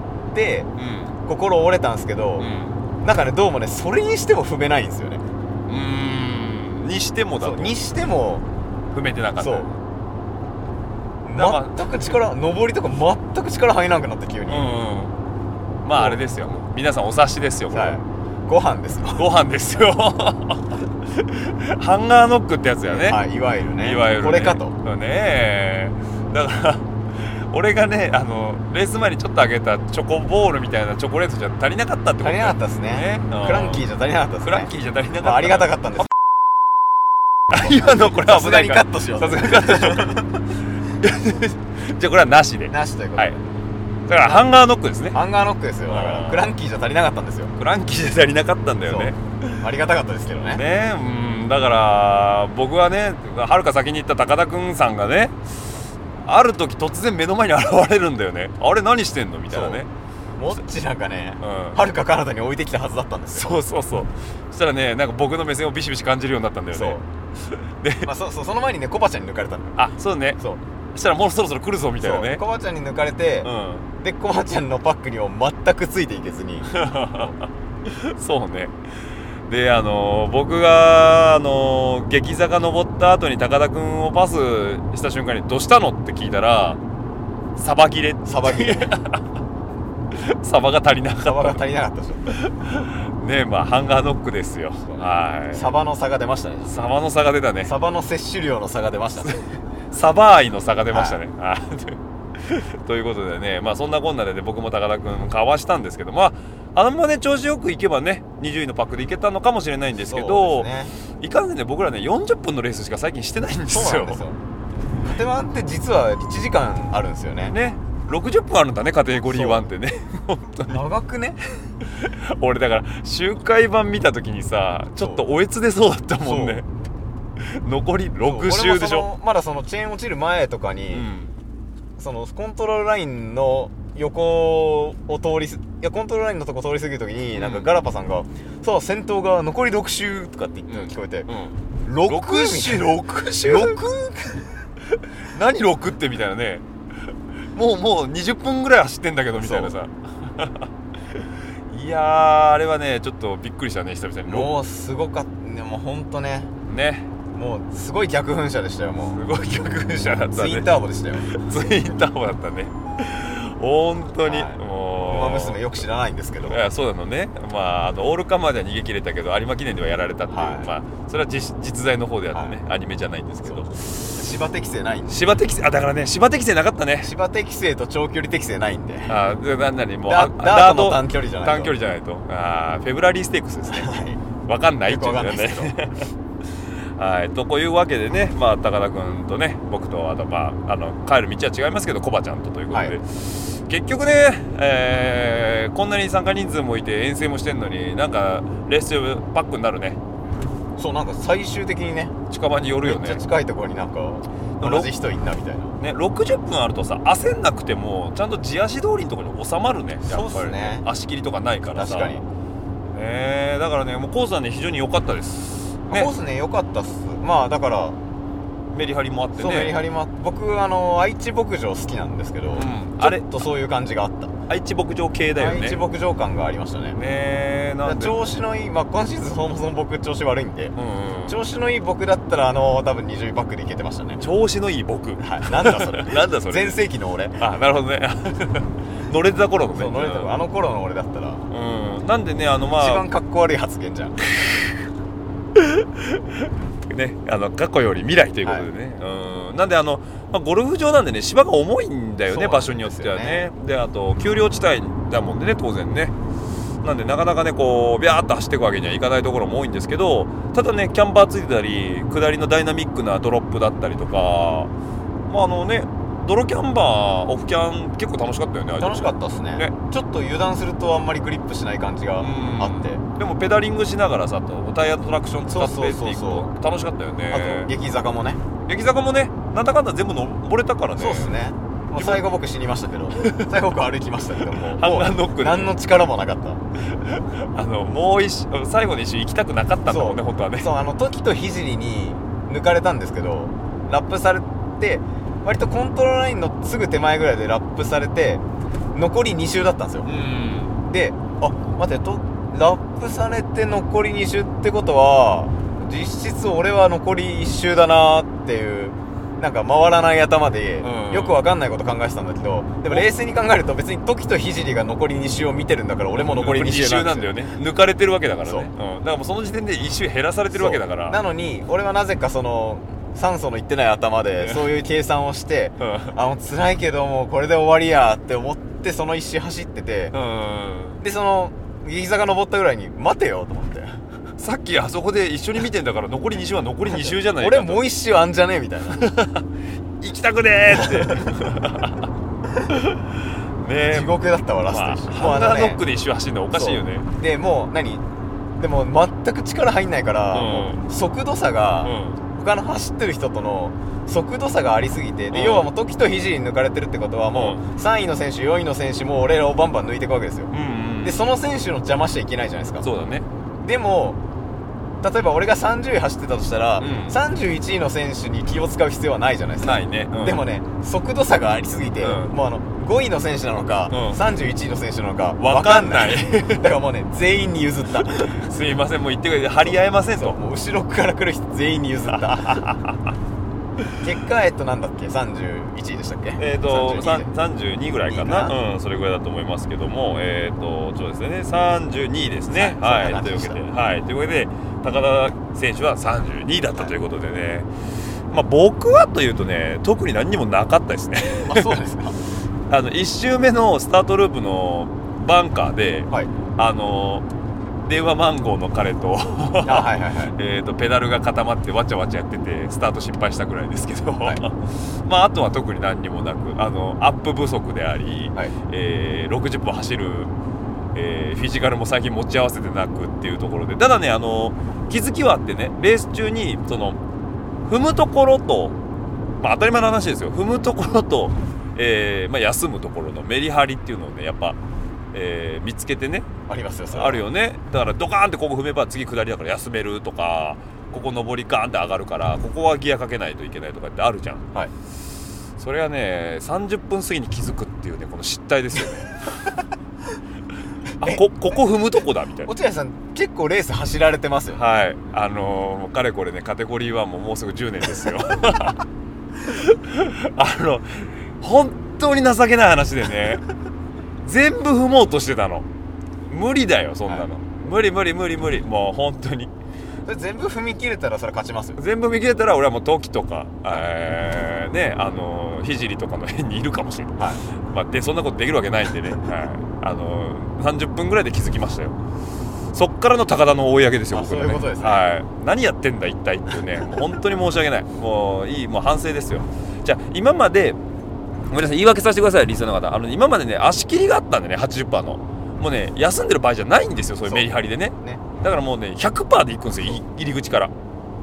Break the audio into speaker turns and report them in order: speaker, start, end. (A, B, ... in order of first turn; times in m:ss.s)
0:00.3-0:00.7 A
0:00.8-0:01.1 B
0:01.2-0:02.5 A
0:02.4-0:02.8 B
0:03.0-0:05.2 A
0:05.7-0:07.8 B
0:07.4-0:08.4 A
0:08.9-0:09.7 B
0:09.4-0:09.7 A
0:11.2-0:14.8 A
0:11.4-0:11.8 B
0:14.5-0:15.1 B
0:15.8-0:18.0 B
0:15.9-0:16.2 A
0:17.7-0:19.3 A
0:19.2-0:23.2 B
0:22.8-0:24.8 A
0:23.8-0:33.8 B
0:32.2-0:36.1 A
0:34.4-0:36.1 B
0:37.5-0:40.2 B
0:37.6-0:40.3 A
0:41.0-0:43.4 B
0:42.7-0:43.4 A
0:44.1-0:45.2 B
0:44.2-0:44.5 A
0:45.1-0:47.5 A
0:45.9-0:46.5 B
0:47.6-0:49.6 B
0:48.8-0:50.6 A
0:50.5-0:55.4 B
0:56.2-0:59.9 B
0:59.5-0:59.8 A
1:00.4-1:03.6 A
1:01.4-1:01.8 B
1:03.3-1:07.0 B
1:06.7-1:07.0 A
1:07.8-1:08.1 B
1:08.0-1:09.8 A
1:09.8-1:10.4 B
1:10.9-1:12.4 B
1:12.0-1:17.3 A
1:13.4-1:13.9 B
1:16.7-1:18.8 B
1:19.5-1:26.8 B
1:27.6-1:29.2 B
1:28.3-1:28.9 A
1:30.2-1:31.6 B
1:31.2-1:32.4 A
1:32.3-1:35.7 B
1:34.9-1:36.9 A
1:36.7-1:37.7 B
1:37.6-1:39.4 A
1:39.9-1:54.2 B
1:40.9-1:41.2 A
1:50.1-1:50.9 A
1:53.7-1:54.4 A
1:55.0-1:57.6 A
1:57.5-2:00.8 B
1:59.3-1:59.7 A
2:00.7-2:01.4 A
2:02.0-2:06.7 B
2:05.0-2:05.2 A
2:06.2-2:06.6 A
2:07.4-2:09.1 B
2:08.2-2:11.1 A
2:10.9-2:11.3 B
2:12.0-2:21.3 A
2:17.4-2:17.7 B
2:20.7-2:23.8 B
2:21.8-2:24.4 A
2:25.3-2:26.6 B
2:27.5-2:30.7 B
2:29.4-2:29.8 A
2:31.7-2:34.5 B
2:34.3-2:36.5 A
2:36.7-2:37.1 B
2:37.3-2:39.2 A
2:39.1-2:40.7 B
2:40.3-2:41.3 A
2:41.3-2:45.6 B
2:44.2-2:46.6 A
2:46.4-2:54.2 B
2:50.3-2:50.7 A
2:53.4-2:55.3 A
2:55.1-2:57.1 B
2:57.0-2:59.2 A
2:59.1-3:03.9 B
3:00.1-3:01.8 A
3:03.7-3:04.2 A
3:04.4-3:06.1 B
3:04.8-3:05.8 A
3:07.0-3:20.0 B
3:12.7-3:13.0 A
3:20.8-3:22.2 A
3:22.3-3:23.2 B
3:22.8-3:25.8 A
3:24.6-3:24.9 B
3:25.8-3:32.2 B
3:30.1-3:30.9 A
3:31.7-3:32.2 A
3:32.9-3:36.1 B
3:35.9-3:38.0 A
3:38.7-3:39.8 B
3:39.4-3:44.3 A
3:42.6-3:43.5 B
3:44.5-3:45.8 B
3:45.4-3:47.0 A
3:46.9-3:48.2 B
3:47.8-3:50.8 A
3:50.8-3:51.4 B
3:51.3-3:54.2 A
3:54.2-3:56.8 B
3:55.2-3:57.4 A
3:57.4-4:00.3 B
3:59.7-4:01.5 A
4:01.5-4:03.1 B
4:02.8-4:04.2 A
4:05.6-4:06.2 B
4:06.9-4:16.1 B
4:12.3-4:13.5 A
4:16.8-4:24.7 B
4:25.3-4:29.8 B
4:28.8-4:33.0 A
4:32.2-4:37.7 B
4:35.5-4:36.5 A
4:37.3-4:38.4 A
4:38.7-4:41.4 B
4:41.0-4:46.6 A
4:42.0-4:42.2 B
4:43.2-4:43.5 B
4:44.7-4:45.8 B
4:47.0-4:50.7 B
4:49.9-4:58.4 A
4:58.9-5:00.1 A
5:00.1-5:00.8 B
5:00.8-5:17.4 A
5:10.8-5:11.4 B
5:16.2-5:21.2 B
5:18.4-5:18.7 A
5:20.5-5:30.1 A
5:24.4-5:24.7 B
5:25.8-5:26.1 B
5:30.1-5:31.0 B
5:31.0-5:34.0 A
5:34.4-5:37.9 B
5:36.9-5:39.0 A
5:39.0-5:39.4 B
5:40.0-5:42.1 B
5:40.7-5:41.2 A
5:42.7-5:43.1 B
5:43.6-5:44.1 B
5:43.9-5:45.8 A
5:44.7-5:47.1 B
5:46.5-5:48.0 A
5:48.6-6:00.5 A
5:50.3-5:50.8 B
5:51.8-5:52.2 B
5:55.3-5:55.7 B
5:57.3-5:57.6 B
6:00.5-6:01.2 B
6:01.0-6:02.8 A
6:02.8-6:03.3 B
6:03.6-6:04.2 A
6:05.0-6:18.4 A
6:06.8-6:07.2 B
6:09.6-6:10.4 B
6:12.0-6:12.3 B
6:13.9-6:14.2 B
6:15.4-6:16.7 B
6:18.2-6:20.4 B
6:19.6-6:22.6 A
6:22.2-6:23.0 B
6:24.0-6:27.3 A
6:26.4-6:37.7 B
6:28.1-6:28.5 A
6:32.5-6:33.6 A
6:38.3-6:41.8 B
6:41.4-6:42.2 A
6:42.7-6:47.3 B
6:47.8-7:00.3 B
6:49.6-6:50.4 A
7:01.0-7:07.0 B
7:07.6-7:08.8 B
7:09.4-7:14.6 B
7:15.1-7:16.3 B
7:16.5-7:17.3 A
7:16.9-7:24.5 B
7:25.6-7:29.1 B
7:31.0-7:32.5 B
7:32.4-7:34.6 A
7:34.5-7:38.8 B
7:39.5-7:43.4 B
7:44.2-7:45.7 B
7:46.3-7:49.5 B
7:50.1-7:51.8 A
7:51.8-8:02.0 B
8:02.7-8:10.8 B
8:04.1-8:05.1 A
8:11.5-8:20.7 B
8:17.2-8:18.2 A